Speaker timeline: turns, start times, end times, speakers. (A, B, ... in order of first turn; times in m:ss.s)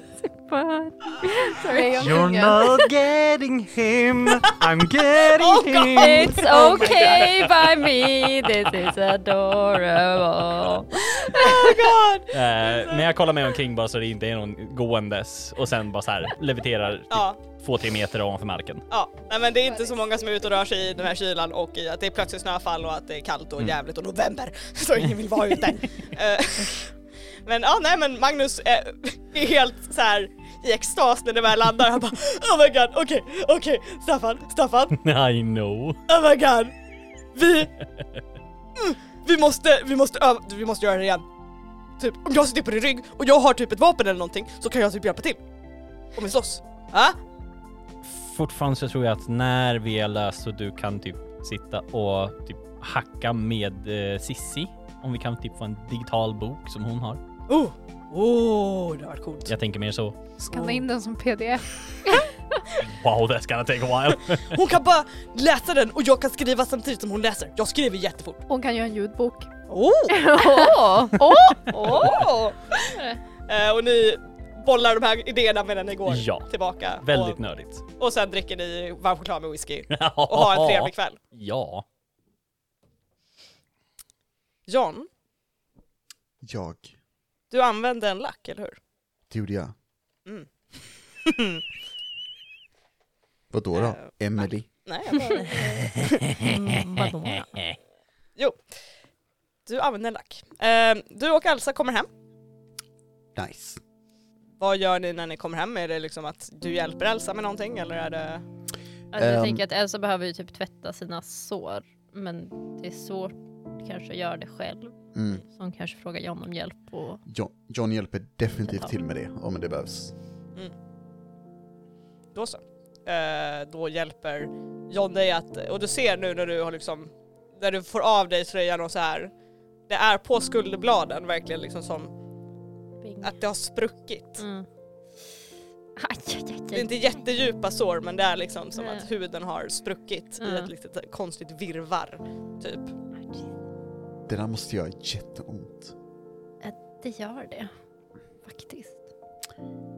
0:00.4-0:02.3 A
0:01.2-0:02.7 B
0:02.0-0:08.9 C
0:05.4-0:06.8 D
0:06.0-0:11.8 A
0:06.6-0:07.0 B
0:11.2-0:13.1 D
0:12.3-0:18.8 C
0:17.1-0:17.4 D
0:18.9-0:26.9 D
0:27.4-0:35.0 D
0:35.0-0:36.0 C
0:36.1-0:36.8 D
0:37.3-0:37.7 D
0:38.8-0:41.2 D
0:42.0-0:45.4 D
0:46.2-0:47.2 D
0:48.0-0:57.2 C
0:57.5-0:59.5 D
0:59.5-1:00.2 C
1:00.5-1:01.6 B
1:02.8-1:04.6 C
1:04.3-1:08.4 D
1:08.5-1:09.5 B
1:09.7-1:10.3 D
1:10.1-1:12.1 A
1:10.3-1:12.0 B
1:11.6-1:17.4 D
1:12.0-1:12.2 C
1:12.9-1:13.2 A
1:16.1-1:17.8 C
1:17.9-1:21.2 D
1:19.9-1:21.8 C
1:24.7-1:25.1 D
1:26.4-1:27.0 E
1:27.5-1:28.8 D
1:29.3-1:29.7 E
1:31.2-1:31.6 D
1:33.5-1:34.7 E
1:33.7-1:37.1 D
1:36.0-1:37.7 C
1:37.0-1:37.5 A
1:38.4-1:38.6 D
1:39.7-1:42.1 D
1:43.4-1:43.8 E
1:44.6-1:48.4 D
1:49.1-1:57.2 A
1:49.2-1:49.6 E
1:55.1-1:55.4 E
1:57.3-2:00.1 E
2:02.3-2:09.3 D
2:09.9-2:12.1 D
2:13.0-2:13.3 A
2:13.2-2:14.4 D
2:14.4-2:14.7 A
2:16.0-2:17.2 A
2:16.7-2:22.9 D
2:18.8-2:19.1 A
2:20.4-2:20.7 A
2:24.3-2:26.0 E
2:26.6-2:27.7 A
2:28.4-2:29.1 A